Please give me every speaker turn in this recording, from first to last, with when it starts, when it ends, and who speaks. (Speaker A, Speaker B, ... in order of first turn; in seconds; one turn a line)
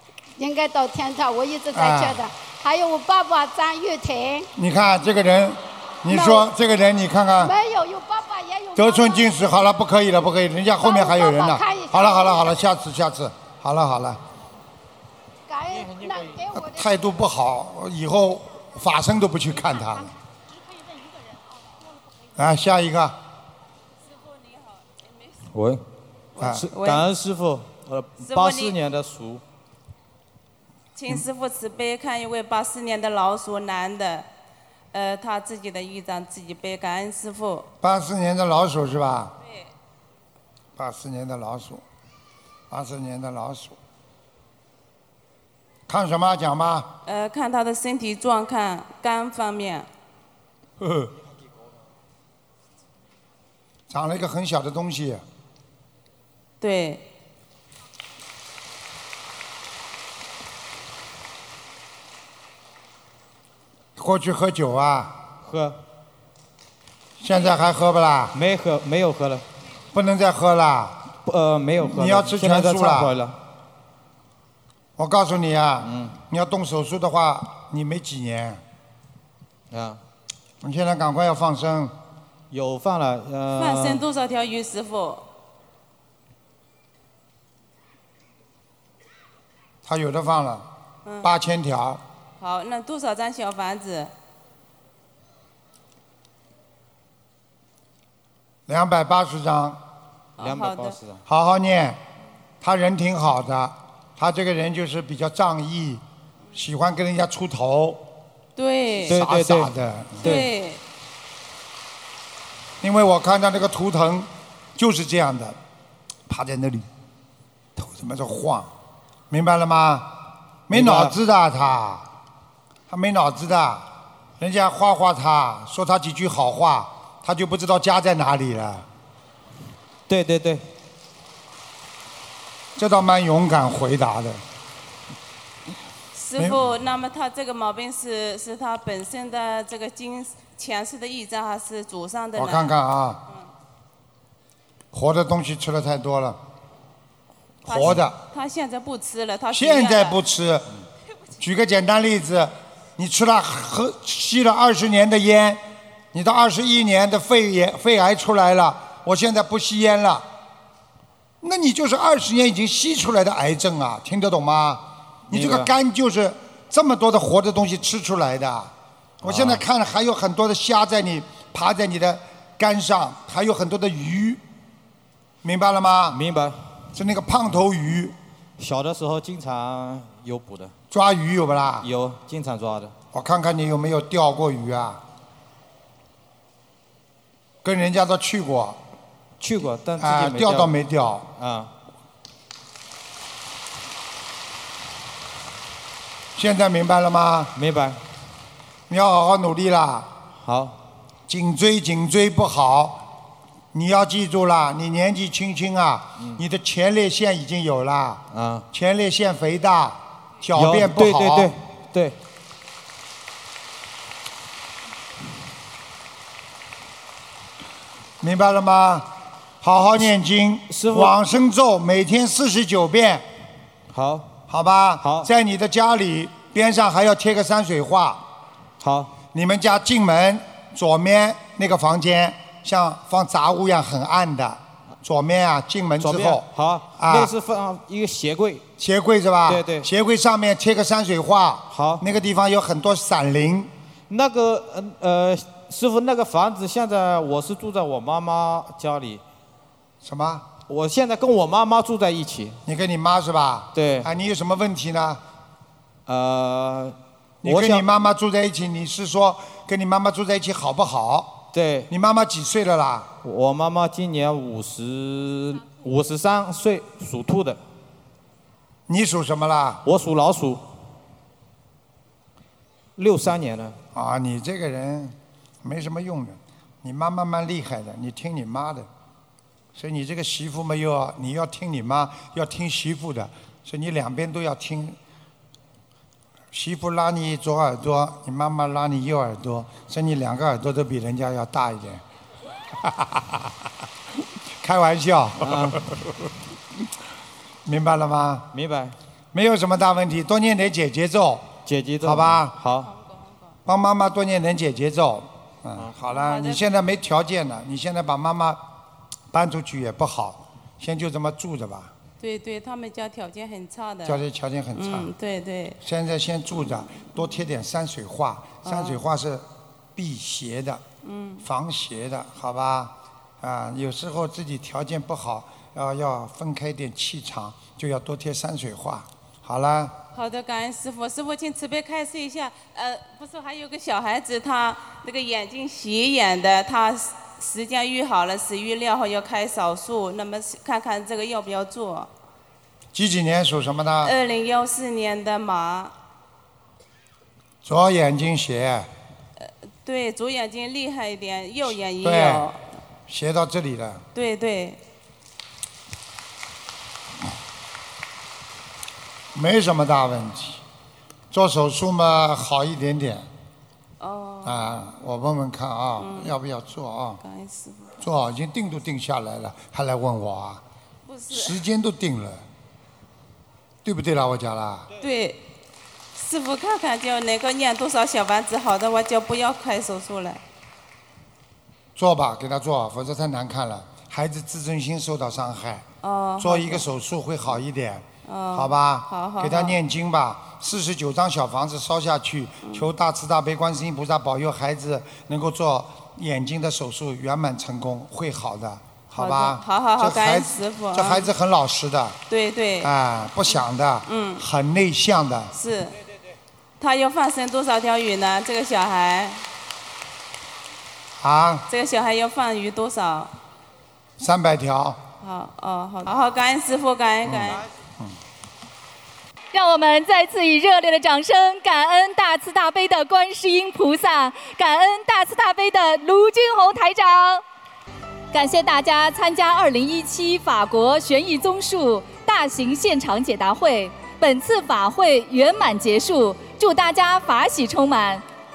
Speaker A: 0.4-4.5
Speaker B: 1.7-2.2
Speaker B: 4.6-7.5
Speaker A: 6.1-6.5
Speaker A: 7.4-9.7
Speaker B: 8.8-14.2
Speaker A: 10.8-12.6
Speaker A: 15.5-16.9
Speaker B: 16.5-20.1
Speaker B: 22.4-23.2
Speaker C: 25.5-25.8
Speaker B: 26.4-26.7
Speaker C: 26.4-29.4
Speaker D: 26.7-27.1
Speaker D: 28.2-28.8
Speaker D: 30.9-34.3
Speaker D: 34.9-37.7
Speaker B: 37.8-39.3
Speaker D: 39.4-39.7
Speaker B: 40.8-41.8
Speaker B: 42.7-43.8
Speaker B: 45.9-46.9
Speaker D: 47.1-49.9
Speaker B: 50.8-51.1
Speaker B: 53.9-55.2
Speaker D: 56.6-57.0
Speaker B: 64.0-65.2
Speaker C: 65.4-65.8
Speaker B: 67.2-68.4
Speaker C: 68.3-69.5
Speaker B: 69.9-71.0
Speaker C: 71.2-73.4
Speaker B: 71.8-73.2
Speaker B: 75.0-78.6
Speaker C: 75.8-76.2
Speaker C: 79.7-80.0
Speaker B: 80.6-81.9
Speaker C: 82.5-84.0
Speaker D: 83.6-85.2
Speaker B: 89.8-90.7
Speaker D: 91.0-91.3
Speaker B: 91.2-92.0
Speaker D: 92.4-94.1
Speaker B: 98.7-99.8
Speaker D: 100.4-101.0
Speaker C: 100.4-101.2
Speaker B: 101.3-102.0
Speaker B: 102.6-106.0
Speaker B: 106.5-108.0
Speaker D: 108.6-109.2
Speaker B: 109.1-110.5
Speaker C: 109.1-110.5
Speaker D: 110.2-110.8
Speaker B: 112.8-115.6
Speaker B: 116.3-116.9
Speaker B: 117.8-118.7
Speaker B: 119.3-120.2
Speaker B: 120.7-122.0
Speaker C: 120.7-121.2
Speaker B: 122.9-123.9
Speaker B: 124.4-128.9
Speaker C: 130.1-130.6
Speaker B: 132.8-134.4
Speaker D: 136.1-142.8
Speaker B: 136.4-136.7
Speaker B: 142.4-143.2
Speaker B: 144.9-146.4
Speaker B: 147.7-148.2
Speaker D: 147.7-150.2
Speaker B: 149.5-150.7
Speaker B: 151.4-155.6
Speaker B: 156.1-160.3
Speaker B: 161.4-174.4
Speaker C: 165.3-165.7
Speaker C: 169.2-169.6
Speaker B: 175.4-176.2
Speaker C: 176.1-176.6
Speaker B: 176.9-178.2
Speaker C: 178.6-180.7
Speaker B: 180.9-181.9
Speaker C: 181.8-182.9
Speaker B: 183.1-185.0
Speaker B: 187.6-188.8
Speaker C: 189.4-190.8
Speaker B: 190.0-191.3
Speaker C: 191.4-191.7
Speaker B: 196.4-197.5
Speaker C: 197.6-198.0
Speaker B: 198.9-200.1
Speaker C: 200.3-200.8
Speaker B: 201.3-203.0
Speaker B: 203.7-211.5
Speaker C: 208.3-208.7
Speaker C: 210.5-212.2
Speaker B: 218.2-223.2
Speaker C: 220.7-221.2
Speaker C: 223.9-224.4
Speaker B: 224.5-228.2
Speaker C: 225.0-225.3
Speaker C: 228.8-229.2
Speaker B: 229.3-237.3
Speaker C: 236.0-238.7
Speaker B: 238.8-243.7
Speaker C: 239.5-239.9
Speaker C: 241.7-242.1
Speaker C: 244.1-249.2
Speaker B: 250.0-250.5
Speaker C: 250.7-252.6
Speaker B: 252.7-255.2
Speaker C: 253.7-254.1
Speaker C: 256.1-257.9
Speaker B: 257.4-263.1
Speaker C: 261.5-261.9
Speaker C: 263.2-267.6
Speaker B: 268.9-269.8
Speaker C: 269.9-270.6
Speaker C: 273.0-273.8
Speaker B: 273.9-278.9
Speaker B: 279.8-285.0
Speaker B: 286.5-292.0
Speaker B: 292.8-293.4
Speaker B: 294.6-296.0
Speaker C: 295.4-295.9
Speaker B: 297.7-298.5
Speaker C: 298.5-298.9
Speaker B: 299.3-302.6
Speaker C: 301.7-302.9
Speaker D: 302.8-303.6
Speaker B: 303.7-308.6
Speaker D: 306.1-306.7
Speaker B: 309.3-311.9
Speaker D: 312.2-314.2
Speaker B: 314.1-315.1
Speaker D: 314.8-315.8
Speaker B: 315.8-320.8
Speaker D: 318.6-319.0
Speaker D: 321.0-321.5
Speaker B: 321.4-330.0
Speaker D: 330.1-342.1
Speaker B: 342.9-344.2
Speaker D: 344.0-345.9
Speaker B: 347.6-348.9
Speaker D: 349.8-352.6
Speaker B: 352.0-352.5
Speaker B: 353.1-354.1
Speaker D: 354.1-354.8
Speaker B: 359.3-360.6
Speaker B: 361.3-363.3
Speaker D: 364.0-364.8
Speaker B: 364.4-367.2
Speaker D: 366.0-366.4
Speaker D: 367.2-368.0
Speaker B: 368.0-370.6
Speaker D: 371.1-371.6
Speaker B: 371.3-372.4
Speaker B: 373.8-374.9
Speaker D: 375.0-375.4
Speaker D: 376.1-380.4
Speaker B: 382.0-385.9
Speaker D: 386.0-386.9
Speaker B: 386.4-402.2
Speaker D: 388.2-389.8
Speaker D: 392.6-392.9
Speaker D: 399.1-401.3
Speaker D: 402.3-402.9
Speaker B: 402.8-405.5
Speaker D: 404.1-404.4
Speaker D: 405.5-406.0
Speaker D: 406.8-409.4
Speaker B: 411.2-411.7
Speaker D: 411.7-413.3
Speaker B: 414.2-415.0
Speaker D: 415.2-417.7
Speaker B: 417.3-418.2
Speaker E: 419.5-427.4
Speaker E: 428.3-438.2